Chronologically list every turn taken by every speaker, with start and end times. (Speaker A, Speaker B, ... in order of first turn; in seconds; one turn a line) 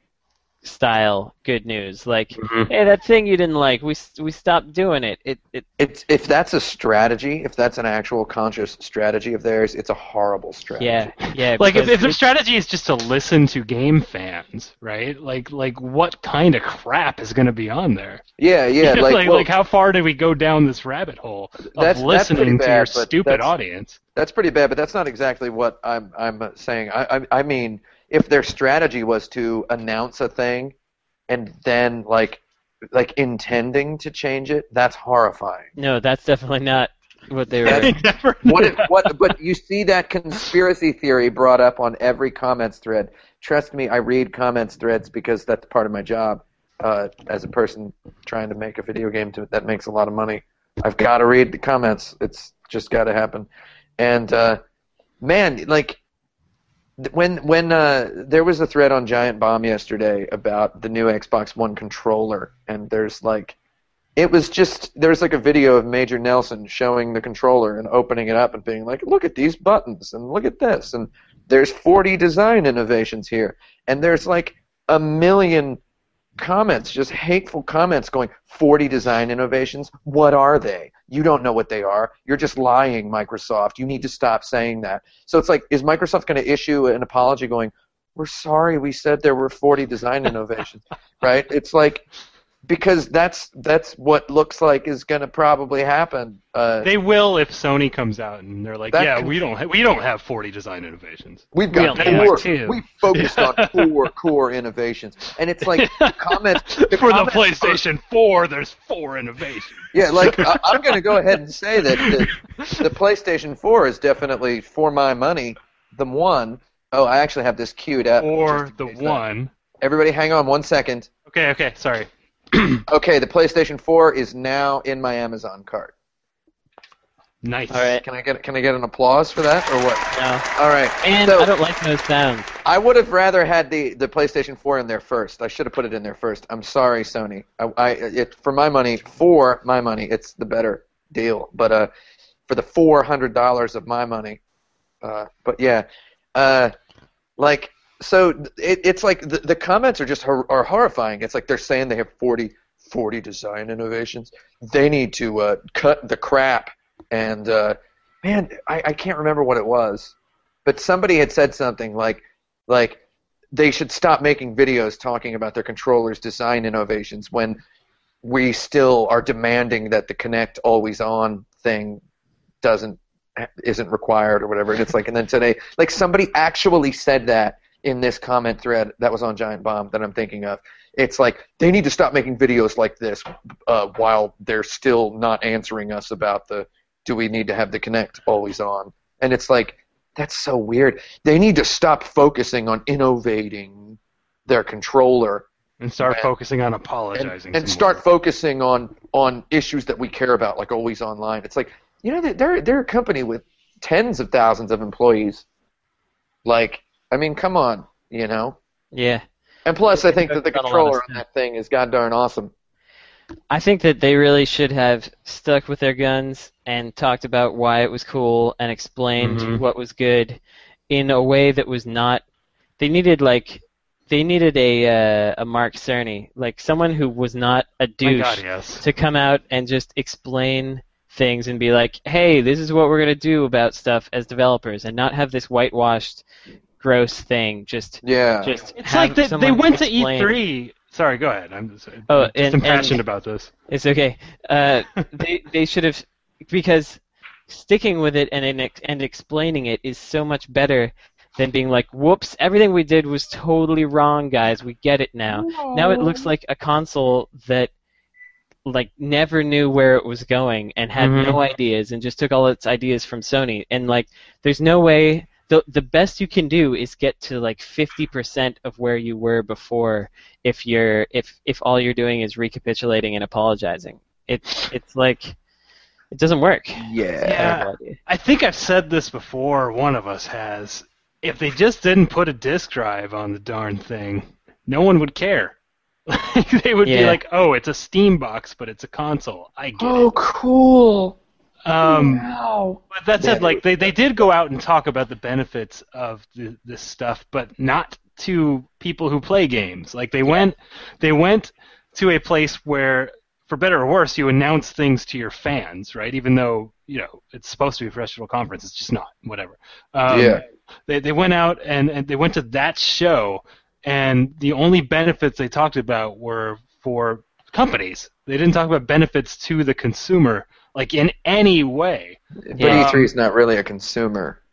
Speaker A: 0.6-5.7
Speaker B: 2.4-2.7
Speaker C: 5.8-11.1
Speaker A: 10.8-12.2
Speaker B: 11.4-18.2
Speaker C: 18.4-19.5
Speaker B: 18.8-24.0
Speaker C: 21.7-23.5
Speaker C: 24.2-30.7
Speaker C: 31.3-35.7
Speaker A: 35.8-38.0
Speaker C: 37.6-54.6
Speaker B: 37.7-39.1
Speaker C: 55.2-56.0
Speaker C: 57.0-63.5
Speaker C: 64.2-75.8
Speaker C: 76.4-92.0
Speaker C: 92.7-96.9
Speaker B: 96.8-104.0
Speaker C: 98.9-99.4
Speaker C: 101.5-107.8
Speaker A: 101.7-102.8
Speaker B: 105.6-110.5
Speaker C: 109.9-119.2
Speaker B: 118.2-119.5
Speaker C: 119.8-121.1
Speaker B: 121.3-122.8
Speaker C: 122.9-125.9
Speaker B: 127.4-128.0
Speaker A: 127.7-128.0
Speaker C: 128.0-131.5
Speaker A: 130.1-130.4
Speaker A: 131.0-132.5
Speaker C: 132.6-141.9
Speaker C: 142.5-144.4
Speaker C: 145.0-146.7
Speaker C: 147.4-160.1
Speaker C: 160.6-163.0
Speaker C: 163.5-167.6
Speaker C: 168.2-172.0
Speaker C: 172.6-195.5
Speaker B: 195.8-198.0
Speaker C: 196.0-196.3
Speaker C: 197.1-205.4
Speaker C: 206.4-208.6
Speaker A: 208.9-209.2
Speaker C: 209.7-212.5
Speaker A: 209.9-211.2
Speaker A: 213.5-220.4
Speaker B: 219.2-219.6
Speaker A: 220.9-222.2
Speaker A: 222.8-236.2
Speaker B: 228.0-228.8
Speaker A: 236.8-240.3
Speaker C: 238.0-238.6
Speaker B: 238.8-243.5
Speaker A: 242.1-243.0
Speaker A: 243.7-257.7
Speaker C: 255.3-256.3
Speaker A: 258.6-275.3
Speaker B: 261.0-261.4
Speaker A: 276.1-278.0
Speaker C: 276.8-277.5
Speaker B: 277.2-285.6
Speaker B: 286.1-290.1
Speaker A: 286.8-287.2
Speaker C: 289.8-291.2
Speaker B: 291.7-292.3
Speaker C: 291.8-293.6
Speaker B: 292.9-323.1
Speaker C: 310.1-310.4
Speaker C: 322.4-324.4
Speaker A: 322.6-322.9